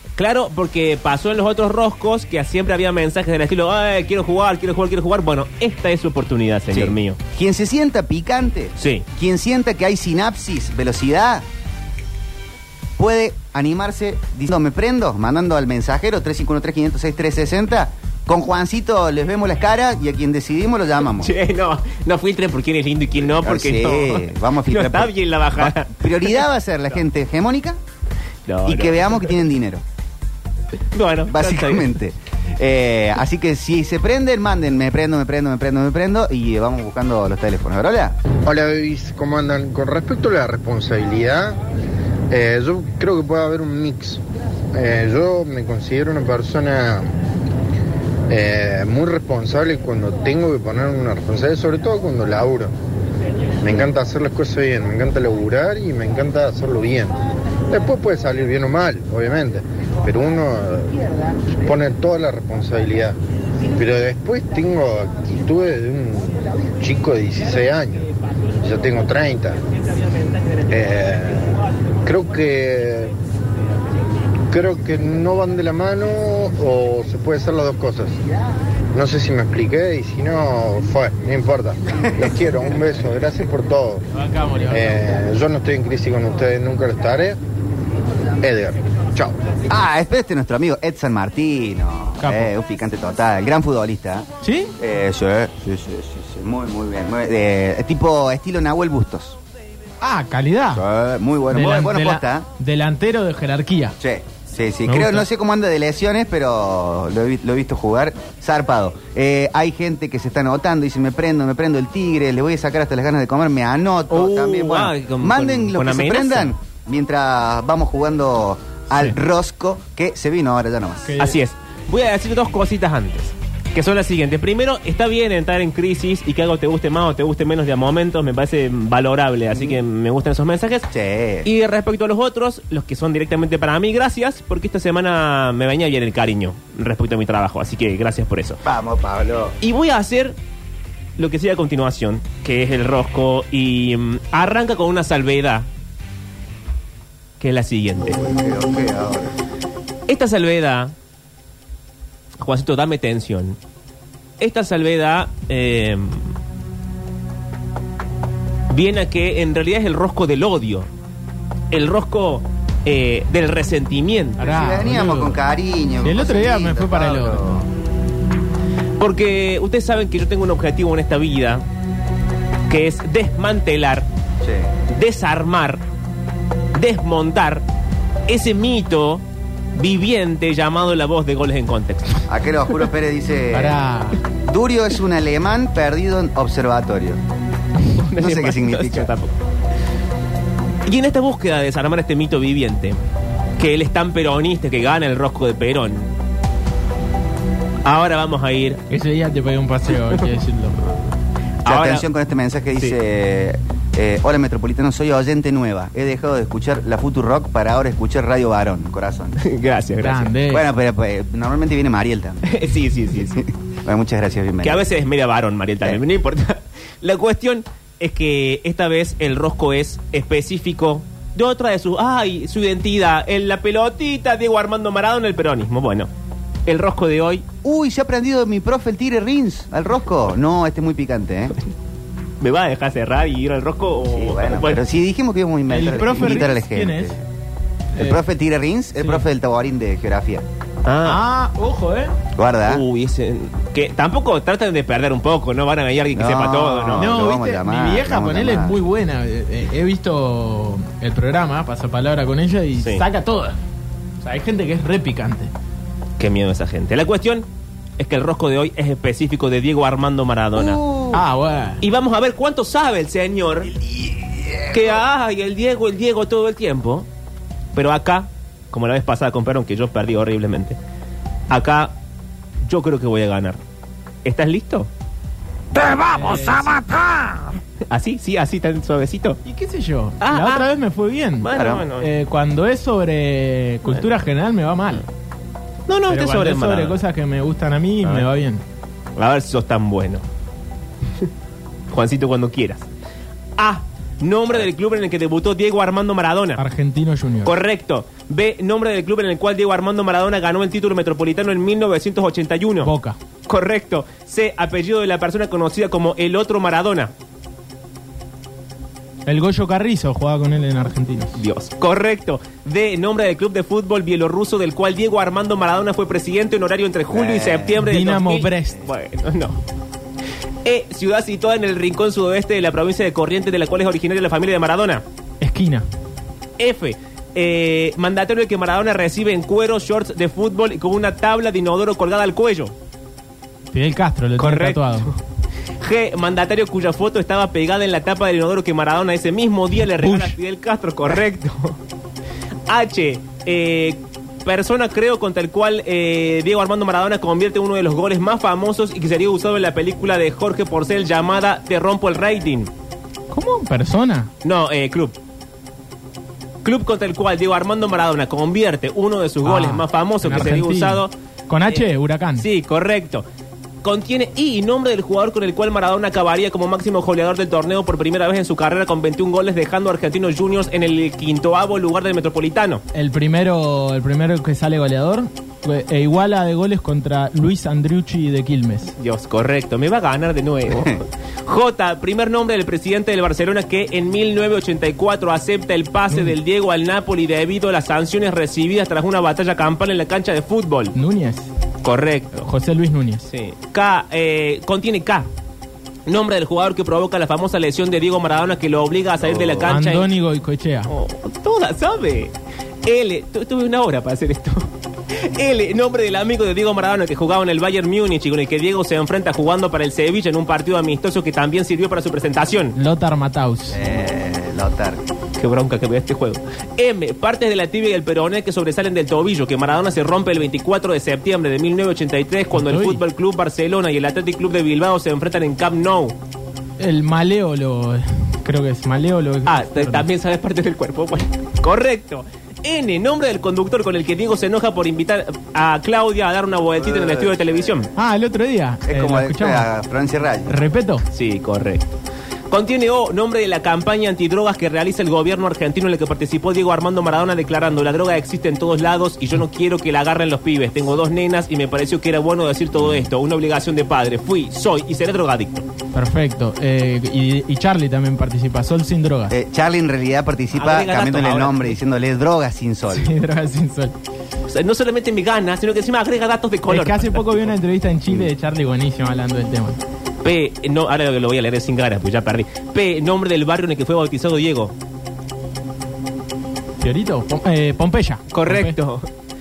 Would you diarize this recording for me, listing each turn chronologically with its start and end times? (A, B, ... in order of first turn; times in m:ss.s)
0:00.2-0:07.2 A
0:06.7-0:11.4 B
0:08.8-0:09.0 A
0:13.0-0:21.3 B
0:21.1-0:26.5 A
0:23.2-0:27.8 B
0:28.5-0:29.3 A
0:28.6-0:29.8 B
0:30.9-0:31.9 A
0:31.3-0:38.2 B
0:38.4-0:41.6 C
0:42.3-0:44.2 C
0:44.7-0:47.1 C
0:48.3-0:52.7 C
0:53.6-0:57.2 C
0:57.7-1:01.0 C
1:01.5-1:03.2 C
1:03.7-1:09.6 C
1:10.7-1:13.2 C
1:14.5-1:18.2 C
1:18.9-1:24.0 C
1:24.1-1:25.0 D
1:24.7-1:27.4 C
1:28.4-1:29.4 C
1:29.7-1:34.3 B
1:32.2-1:32.5 D
1:34.4-1:34.7 D
1:34.8-1:39.4 B
1:40.0-1:40.8 D
1:40.7-1:42.4 B
1:41.5-1:44.0 D
1:44.0-2:01.1 B
1:44.8-1:45.2 D
1:54.1-1:56.5 A
2:01.0-2:01.4 D
2:01.2-2:10.9 A
2:09.5-2:09.8 B
2:10.9-2:11.5 B
2:11.4-2:18.6 A
2:18.6-2:19.6 B
2:19.6-2:20.4 A
2:21.2-2:25.7 A
2:27.4-2:28.2 A
2:28.0-2:29.3 B
2:30.1-2:30.9 A
2:32.4-2:33.6 A
2:34.4-2:36.3 A
2:38.7-2:40.9 A
2:41.7-2:44.4 A
2:44.4-2:45.4 D
2:44.4-2:47.7 B
2:46.0-2:47.5 D
2:49.0-2:51.6 A
2:52.7-2:54.1 A
2:54.4-2:54.7 B
2:54.9-2:55.8 A
2:56.7-2:57.6 A
2:58.3-2:59.2 A
2:59.8-3:02.2 A
3:02.3-3:07.2 B
3:03.5-3:04.2 D
3:07.9-3:09.4 A
3:08.2-3:09.1 B
3:10.8-3:13.0 A
3:13.6-3:16.1 A
3:17.8-3:18.8 A
3:18.9-3:20.8 D
3:21.6-3:22.0 A
3:21.6-3:29.4 B
3:29.4-3:30.3 A
3:30.0-3:30.7 D
3:30.5-3:32.5 B
3:32.4-3:33.4 A
3:33.1-3:34.9 B
3:34.6-3:46.1 A
3:46.7-3:47.4 A
3:47.6-3:51.5 B
3:52.4-3:54.8 A
3:54.0-3:57.2 B
3:55.7-3:57.2 D
3:58.0-3:58.2 D
3:58.0-4:00.4 B
3:59.0-3:59.2 D
4:00.8-4:01.2 A
4:01.0-4:02.1 D
4:02.4-4:02.8 B
4:02.6-4:07.1 A
4:06.1-4:08.8 B
4:07.0-4:13.6 D
4:12.8-4:13.0 A
4:14.2-4:15.5 D
4:16.2-4:17.4 A
4:18.0-4:20.8 A
4:20.5-4:21.2 B
4:21.1-4:21.8 D
4:21.8-4:23.7 A
4:23.6-4:25.0 B
4:24.7-4:27.1 A
4:27.7-4:30.8 A
4:31.5-4:31.9 A
4:32.6-4:33.6 A
4:34.2-4:34.9 A
4:35.7-4:39.4 A
4:35.8-4:36.9 D
4:39.4-4:45.0 D
4:40.2-4:40.7 A
4:41.4-4:42.1 A
4:41.5-4:41.8 B
4:45.9-4:47.0 A
4:46.1-4:48.6 D
4:49.2-4:50.2 A
4:51.9-4:52.9 A
4:53.6-4:56.6 A
4:56.6-4:57.6 D
4:57.4-5:02.9 A
5:02.8-5:03.2 D
5:03.5-5:07.1 A
5:09.2-5:11.4 D
5:11.4-5:19.6 A
5:17.1-5:17.8 B
5:17.8-5:18.8 D
5:20.6-5:25.0 A
5:25.4-5:25.8 D
5:26.6-5:32.7 A
5:33.7-5:35.1 D
5:34.4-5:35.2 A
5:35.8-5:41.8 A
5:40.0-5:40.3 D
5:42.7-5:52.7 A
5:53.3-5:54.3 D
5:54.4-5:55.2 A
5:56.6-6:01.1 A
5:59.4-6:02.4 D
6:02.4-6:03.2 A
6:03.8-6:12.8 A
6:12.9-6:18.9 D
6:19.0-6:30.9 A
6:20.7-6:21.0 B
6:26.1-6:26.4 D
6:30.9-6:31.5 D
6:31.8-6:32.5 A
6:32.4-6:33.3 D
6:33.3-6:35.3 A
6:36.0-6:40.1 A
6:39.2-6:39.7 B
6:39.7-6:40.9 D
6:40.9-6:42.3 A
6:42.8-6:52.7 A
6:52.7-6:53.9 D
6:53.7-6:55.0 B
6:55.4-7:06.2 A
7:02.5-7:03.0 D
7:06.8-7:10.1 D
7:09.5-7:17.9 A
7:16.8-7:17.9 B
7:17.9-7:19.7 D
7:18.8-7:20.6 B
7:20.5-7:21.0 D
7:21.1-7:21.9 A
7:22.5-7:35.6 A
7:32.8-7:33.1 B
7:35.9-7:39.3 D
7:39.3-7:43.1 B
7:40.5-7:41.7 A
7:42.9-7:44.0 D
7:44.5-7:47.5 A
7:46.7-7:49.8 D
7:50.2-7:54.7 A
7:56.8-7:58.8 D
7:58.3-7:59.1 A